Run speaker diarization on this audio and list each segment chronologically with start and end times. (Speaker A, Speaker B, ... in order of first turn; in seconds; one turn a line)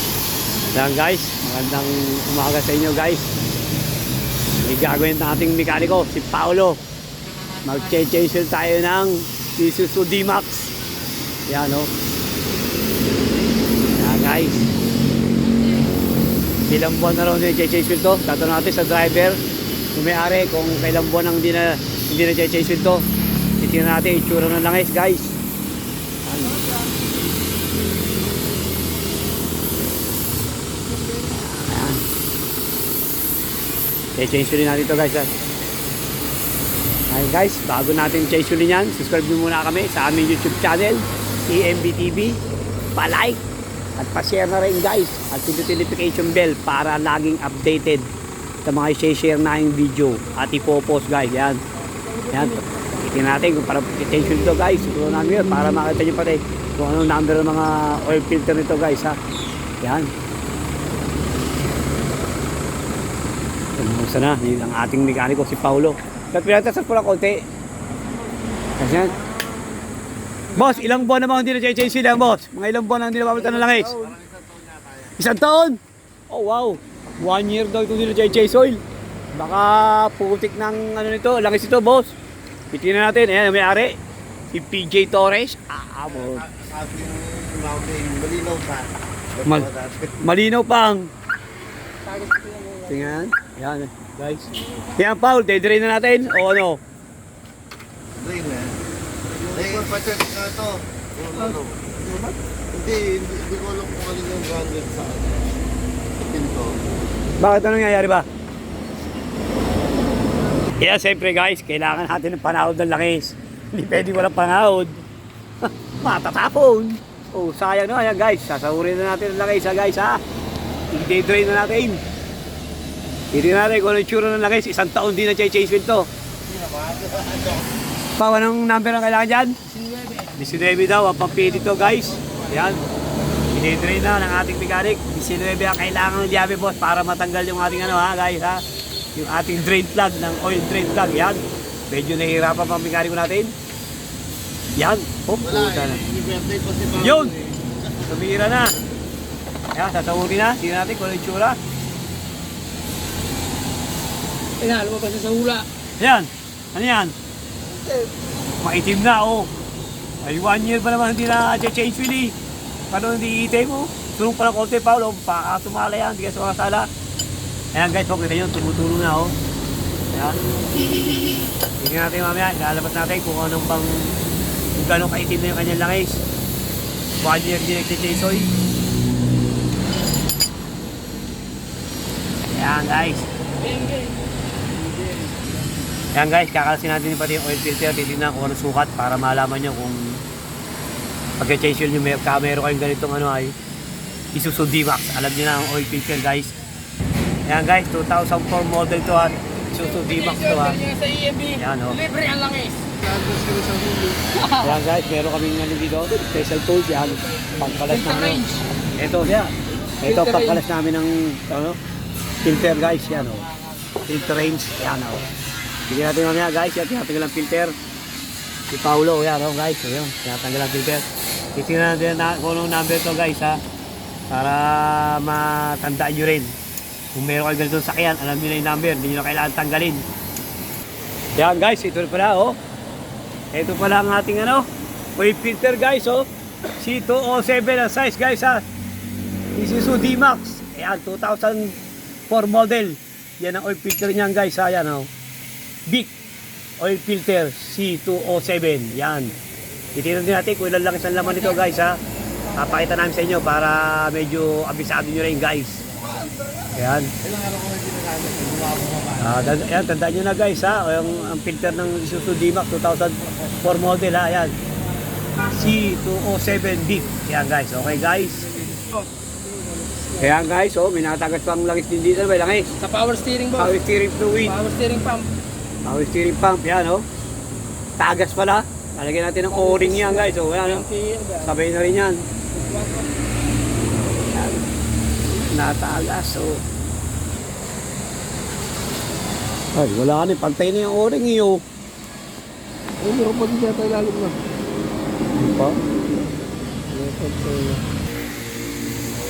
Speaker A: 0.7-3.3
Speaker A: 4.6-6.8
Speaker A: 7.7-10.7
Speaker A: 11.5-11.9
Speaker A: 13.9-14.7
Speaker A: 16.7-19.4
Speaker A: 19.9-23.0
Speaker A: 23.6-25.4
Speaker A: 26.2-26.6
Speaker A: 31.1-32.0
Speaker A: 34.2-35.3
Speaker A: 37.1-42.4
Speaker A: 43.0-43.4
Speaker A: 44.0-48.1
Speaker A: 48.6-51.6
Speaker B: 52.0-52.8
Speaker A: 52.3-59.2
Speaker A: 59.8-60.1
Speaker A: 63.8-67.5
Speaker A: 68.8-69.2
Speaker A: 70.5-74.1
Speaker C: 73.6-75.1
Speaker A: 75.2-78.8
Speaker A: 79.3-82.1
Speaker A: 82.7-84.0
Speaker A: 84.5-86.5
Speaker C: 86.1-90.1
Speaker A: 90.2-91.1
Speaker B: 92.0-93.2
Speaker A: 92.9-96.8
Speaker C: 98.2-98.8
Speaker C: 99.4-102.0
Speaker C: 102.7-105.5
Speaker C: 106.2-106.8
Speaker A: 107.4-108.3
Speaker A: 110.8-115.0
Speaker A: 116.0-120.2
Speaker A: 120.9-122.0
Speaker A: 123.3-126.1
Speaker C: 126.5-127.6
Speaker A: 128.2-129.6
Speaker B: 129.7-130.3
Speaker A: 130.3-132.8
Speaker C: 131.6-132.3
Speaker A: 133.5-138.6
Speaker A: 139.2-143.5
Speaker A: 144.8-146.0
Speaker C: 145.4-147.8
Speaker A: 147.0-147.4
Speaker A: 148.1-148.8
Speaker A: 149.8-151.6
Speaker B: 154.6-155.7
Speaker A: 156.0-157.2
Speaker B: 157.7-158.1
Speaker A: 158.6-159.5
Speaker A: 160.2-162.4
Speaker A: 162.9-166.9
Speaker A: 167.7-169.4
Speaker A: 170.1-170.4
Speaker A: 171.8-174.1
Speaker A: 174.8-176.2
Speaker A: 177.2-178.5
Speaker A: 182.5-183.3
Speaker B: 183.6-184.2
Speaker B: 184.9-185.3
Speaker A: 186.1-190.2
Speaker A: 191.4-193.6
Speaker A: 194.3-196.6
Speaker A: 197.5-200.8
Speaker B: 200.0-202.9
Speaker A: 201.5-202.0
Speaker C: 203.0-204.2
Speaker B: 204.3-204.8
Speaker A: 204.6-211.8
Speaker B: 207.8-208.7
Speaker B: 210.0-210.6
Speaker A: 212.4-213.5
Speaker A: 214.1-215.3
Speaker A: 215.9-217.8
Speaker A: 218.7-223.6
Speaker A: 224.3-226.6
Speaker A: 227.1-230.1
Speaker A: 231.4-232.6
Speaker A: 233.5-234.7
Speaker A: 235.2-238.6
Speaker A: 239.6-245.1
Speaker A: 245.9-246.1
Speaker A: 246.8-249.3
Speaker A: 249.9-252.0
Speaker A: 252.6-255.8
Speaker A: 256.8-257.1
Speaker C: 257.2-259.4
Speaker A: 259.2-264.5
Speaker A: 265.4-268.5
Speaker B: 269.8-270.2
Speaker A: 270.2-272.7
Speaker B: 272.8-273.8
Speaker A: 273.5-274.6
Speaker B: 274.4-275.3
Speaker A: 275.9-277.1
Speaker A: 278.0-280.9
Speaker B: 279.4-281.5
Speaker A: 281.4-282.3
Speaker B: 282.5-283.1
Speaker A: 284.1-284.6
Speaker A: 285.3-286.6
Speaker A: 289.8-291.6
Speaker B: 293.0-294.4
Speaker A: 295.4-295.8
Speaker B: 296.9-297.8